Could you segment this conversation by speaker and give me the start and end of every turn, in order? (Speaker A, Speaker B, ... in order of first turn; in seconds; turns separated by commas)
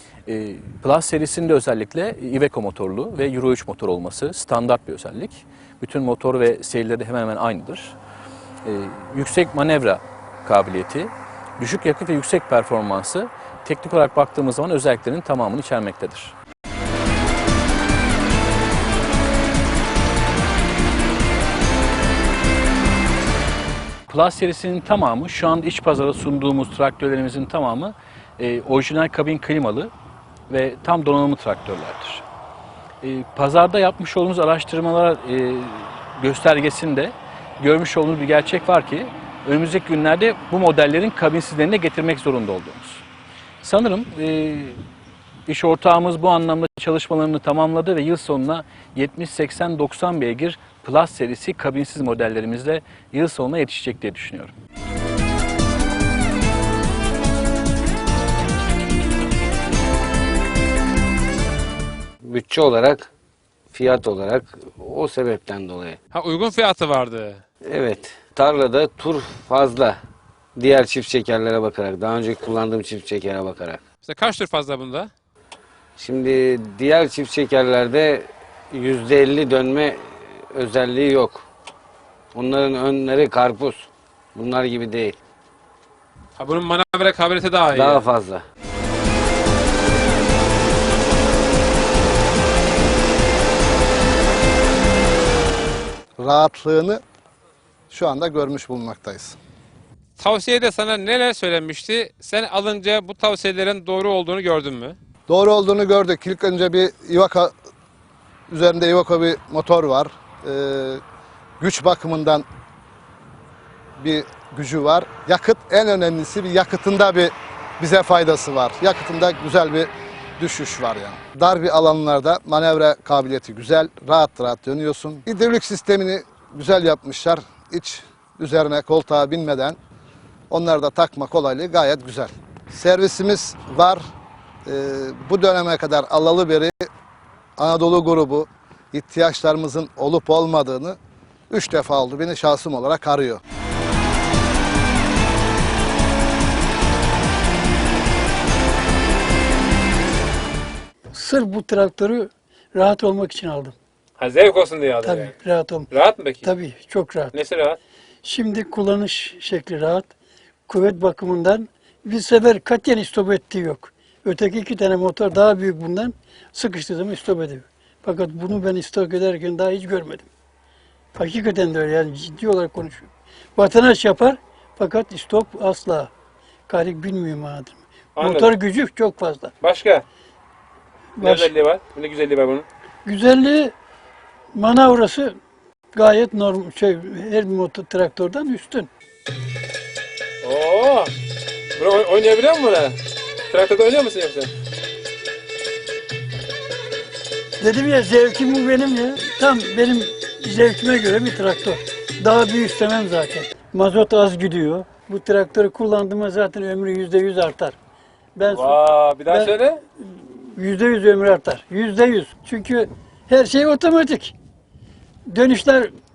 Speaker A: 0.2-8.0, Speaker A: 8.6-16.3, Speaker A: 24.1-29.9, Speaker A: 30.5-32.2, Speaker A: 33.0-43.0, Speaker A: 43.6-44.8, Speaker A: 45.5-54.5, Speaker B: 62.2-63.1, Speaker B: 63.7-66.0, Speaker C: 66.1-67.4, Speaker B: 67.6-70.0, Speaker B: 70.5-73.8, Speaker C: 74.0-75.1, Speaker B: 76.0-81.4, Speaker B: 82.3-85.2, Speaker C: 86.4-88.0, Speaker B: 87.7-88.4, Speaker D: 96.2-97.0, Speaker D: 97.9-99.4, Speaker C: 100.2-105.0, Speaker D: 105.3-107.5, Speaker D: 108.5-111.0, Speaker D: 111.6-112.5, Speaker D: 114.0-129.8, Speaker D: 130.5-134.0, Speaker D: 134.7-136.9, Speaker D: 137.6-141.0, Speaker D: 141.5-143.4, Speaker E: 151.1-153.7, Speaker C: 154.2-155.3, Speaker E: 155.0-155.9, Speaker C: 155.9-156.5, Speaker E: 156.4-157.3, Speaker C: 157.3-157.8, Speaker E: 158.2-160.1, Speaker E: 160.7-170.3, Speaker E: 171.2-176.1, Speaker E: 176.7-179.5, Speaker C: 178.2-178.5, Speaker C: 179.6-180.0, Speaker E: 181.2-181.5, Speaker C: 181.2-182.7, Speaker E: 183.0-183.7, Speaker E: 184.5-185.4, Speaker E: 185.9-188.9, Speaker C: 190.4-191.1, Speaker C: 191.8-194.5, Speaker E: 197.6-207.8, Speaker E: 208.3-214.3, Speaker C: 208.5-209.8, Speaker E: 215.3-215.9